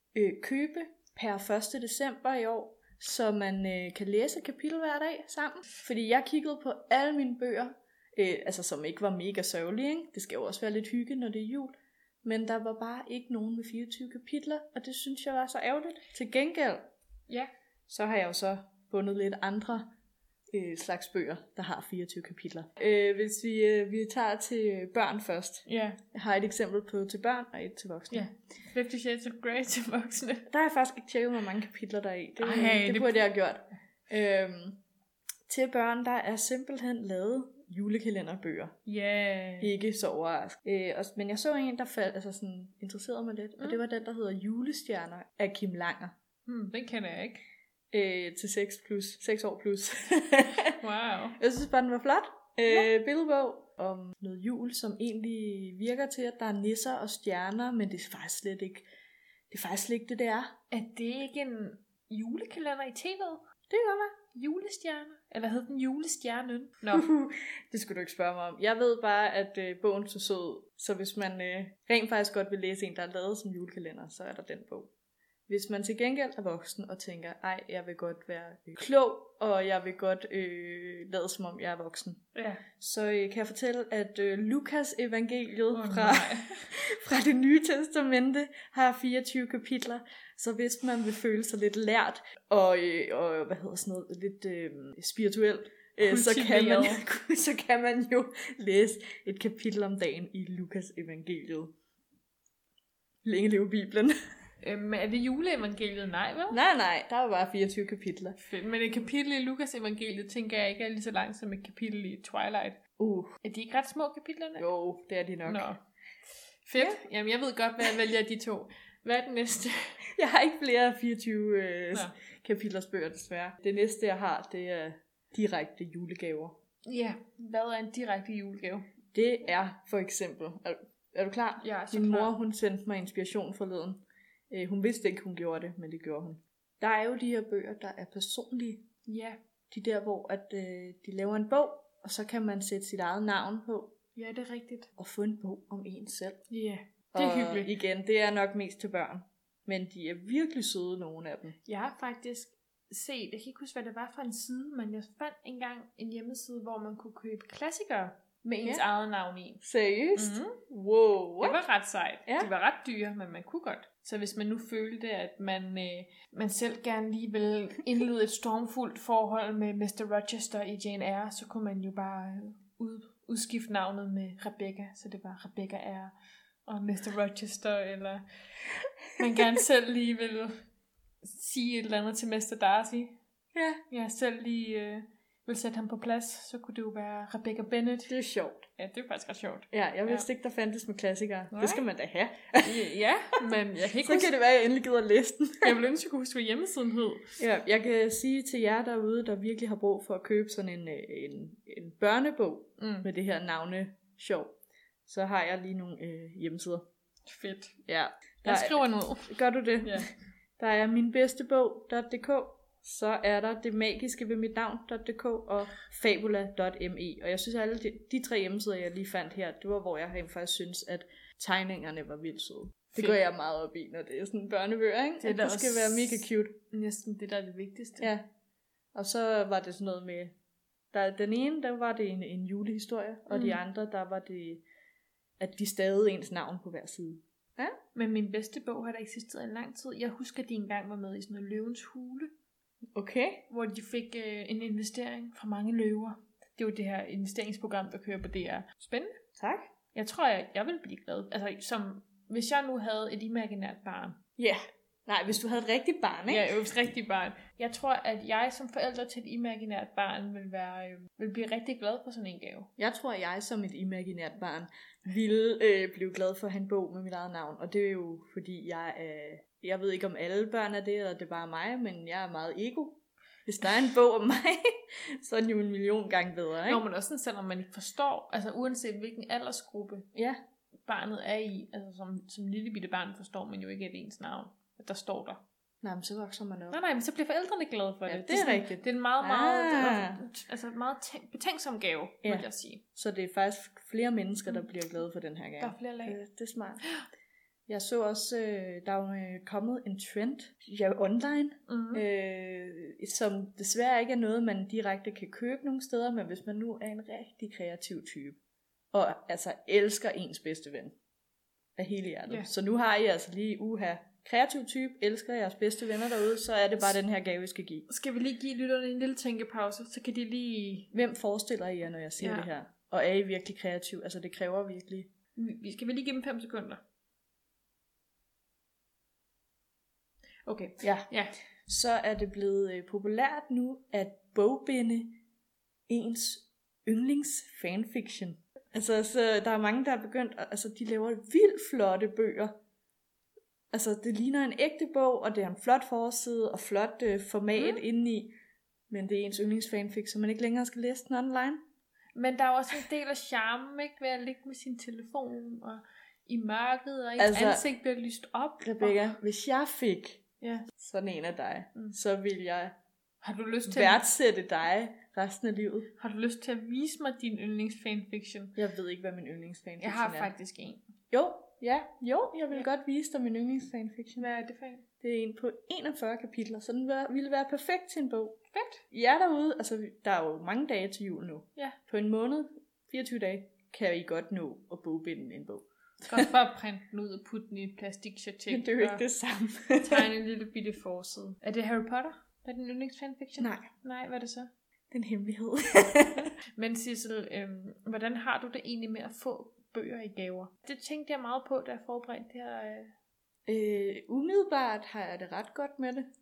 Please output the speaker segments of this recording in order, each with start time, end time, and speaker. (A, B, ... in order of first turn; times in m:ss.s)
0:00.1-0:16.9 A
0:17.9-0:19.9 A
0:20.5-0:28.3 A
0:25.6-0:26.0 B
0:28.1-0:30.4 B
0:30.5-0:34.8 A
0:32.4-0:33.3 B
0:35.5-0:38.7 A
0:38.8-0:39.7 B
0:39.6-0:46.1 A
0:46.4-0:47.4 B
0:47.9-0:50.8 A
0:50.8-0:51.4 B
0:51.4-0:58.8 A
0:59.5-1:00.6 A
1:00.7-1:03.5 B
1:03.7-1:04.2 A
1:04.3-1:07.0 B
1:06.9-1:14.9 A
1:15.5-1:41.7 A
1:22.3-1:22.6 B
1:25.7-1:26.7 B
1:36.0-1:37.0 B
1:43.2-1:44.1 A
1:44.6-1:46.6 B
1:46.5-1:48.4 A
1:48.4-1:52.8 B
1:53.0-1:53.4 A
1:53.4-1:54.6 B
1:54.6-1:55.7 A
1:55.4-1:55.8 B
1:56.6-2:00.0 B
2:00.1-2:06.6 A
2:06.8-2:08.9 B
2:09.1-2:18.8 A
2:11.6-2:12.3 B
2:19.0-2:19.4 B
2:19.7-2:24.0 A
2:24.1-2:24.9 B
2:25.0-2:26.4 A
2:26.5-2:27.7 B
2:27.1-2:31.5 A
2:31.6-2:39.6 B
2:39.6-2:41.6 A
2:40.2-2:40.6 B
2:41.4-2:56.1 B
2:56.6-2:58.2 B
2:59.2-3:00.5 B
3:01.2-3:03.2 B
3:03.5-3:03.8 A
3:03.9-3:08.1 B
3:08.1-3:08.7 A
3:08.8-3:10.3 B
3:09.7-3:12.8 A
3:11.5-3:11.8 B
3:12.6-3:14.3 B
3:14.0-3:15.7 A
3:15.6-3:17.4 B
3:17.4-3:26.9 A
3:22.8-3:23.1 B
3:27.2-3:27.8 B
3:27.8-3:46.6 A
3:28.4-3:30.1 B
3:45.2-3:48.1 B
3:48.0-3:48.3 A
3:48.9-3:50.3 A
3:50.9-3:54.6 A
3:53.3-3:53.6 B
3:55.4-3:57.8 A
3:57.9-4:02.3 B
4:02.9-4:03.5 A
4:03.5-4:09.2 B
4:09.4-4:09.6 A
4:09.9-4:14.2 B
4:14.4-4:16.6 A
4:16.3-4:22.7 B
4:22.8-4:36.8 A
4:36.6-4:40.1 B
4:40.1-4:40.4 A
4:40.9-4:45.4 B
4:45.8-4:46.8 A
4:46.7-4:52.8 B
4:48.1-4:50.2 A
4:52.2-4:56.8 A
4:55.6-4:56.2 B
4:57.7-5:08.4 A
5:01.7-5:02.0 B
5:08.9-5:11.0 A
5:11.8-5:17.9 A
5:17.9-5:20.9 B
5:20.9-5:25.1 A
5:22.2-5:22.5 B
5:25.4-5:26.8 B
5:30.4-5:31.3 B
5:30.8-5:31.1 A
5:31.7-5:35.2 A
5:35.9-5:42.6 A
5:43.7-5:48.3 A
5:47.6-5:47.8 B
5:48.9-5:51.6 A
5:52.2-5:59.0 B
5:57.2-5:57.6 A
5:58.6-6:02.7 A
6:00.4-6:00.7 B
6:03.2-6:04.0 B
6:03.7-6:05.9 A
6:06.0-6:08.6 B
6:08.6-6:10.3 A
6:09.8-6:10.8 B
6:11.1-6:14.2 A
6:14.2-6:14.8 B
6:15.0-6:18.4 A
6:18.5-6:18.8 B
6:18.9-6:26.3 A
6:26.1-6:29.0 B
6:28.5-6:30.1 A
6:29.8-6:34.5 B
6:33.4-6:33.7 A
6:34.9-6:36.3 A
6:36.0-6:42.9 B
6:43.4-6:46.1 A